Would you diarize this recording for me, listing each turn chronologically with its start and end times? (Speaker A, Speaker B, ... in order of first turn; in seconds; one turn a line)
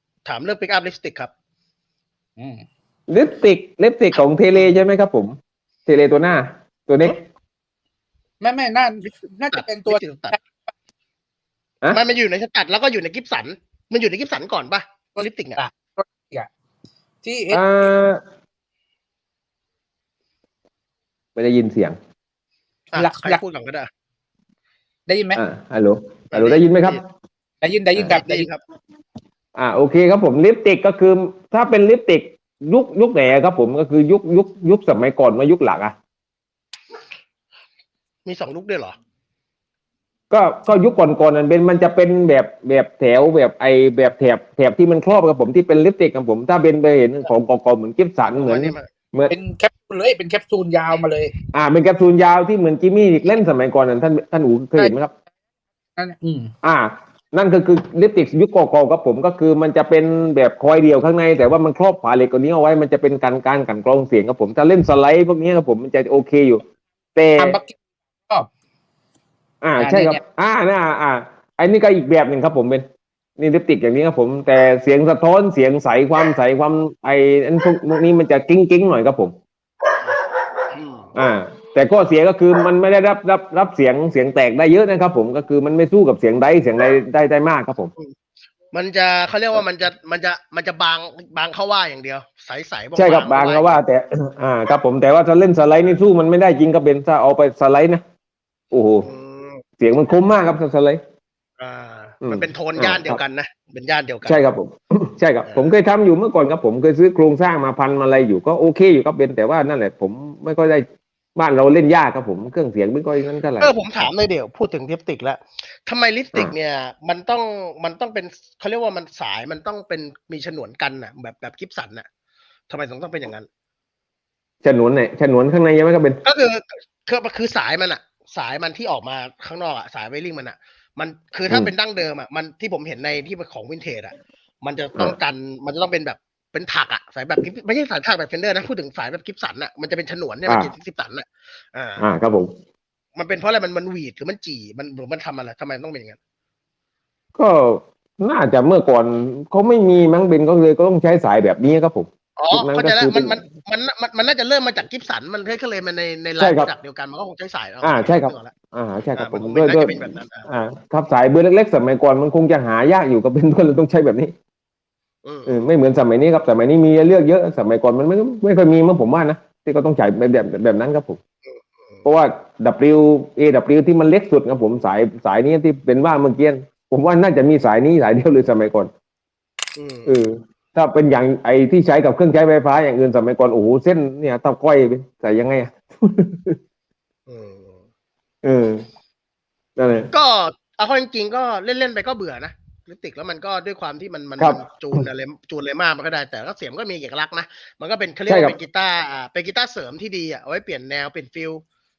Speaker A: 0.2-1.3
Speaker B: 2.4-2.6
Speaker C: 3.1-5.3
Speaker A: 4.1-4.8
Speaker C: 5.8-7.2
Speaker B: 8.4-10.4
Speaker A: 9.5-10.4
Speaker A: 11.9-15.6
Speaker B: 15.2-16.5
Speaker B: 17.2-17.7
Speaker C: 17.5-18.2
Speaker C: 21.4-21.9
Speaker A: 22.9-23.9
Speaker B: 22.9-23.4
Speaker B: 25.1-25.4
Speaker C: 25.3-27.0
Speaker A: 26.3-27.0
Speaker B: 27.6-28.5
Speaker C: 27.9-28.2
Speaker A: 28.1-28.6
Speaker C: 29.6-35.9
Speaker A: 38.2-39.0
Speaker C: 40.3-49.3
Speaker A: 48.3-48.9
Speaker B: 49.3-51.3
Speaker C: 51.5-55.1
Speaker B: 56.0-56.5
Speaker C: 56.6-66.6
Speaker C: 67.1-67.5
Speaker B: 67.4-67.7
Speaker C: 69.6-72.8
Speaker B: 69.8-70.2
Speaker C: 73.4-79.3
Speaker A: 80.7-81.1
Speaker C: 81.1-87.9
Speaker A: 88.7-93.8
Speaker C: 93.0-98.0
Speaker C: 98.7-99.1
Speaker A: 99.0-99.6
Speaker C: 99.8-101.0
Speaker A: 101.6-104.4
Speaker C: 102.2-103.2
Speaker C: 104.2-110.8
Speaker A: 105.5-105.7
Speaker C: 111.3-114.0
Speaker A: 113.6-122.1
Speaker A: 122.7-123.5
Speaker C: 124.6-126.2
Speaker A: 126.2-142.1
Speaker C: 140.4-140.7
Speaker C: 142.0-142.5
Speaker A: 143.2-146.2
Speaker C: 147.3-153.4
Speaker A: 152.4-158.5
Speaker C: 156.4-156.7
Speaker C: 157.8-159.9
Speaker A: 159.1-160.5
Speaker C: 160.5-164.3
Speaker A: 165.2-165.7
Speaker C: 165.5-171.2
Speaker A: 171.5-172.1
Speaker C: 172.0-178.9
Speaker A: 179.8-180.2
Speaker C: 180.1-186.6
Speaker A: 187.3-187.8
Speaker C: 188.4-188.8
Speaker C: 189.8-190.1
Speaker A: 190.1-201.6
Speaker C: 194.4-195.0
Speaker C: 198.3-198.6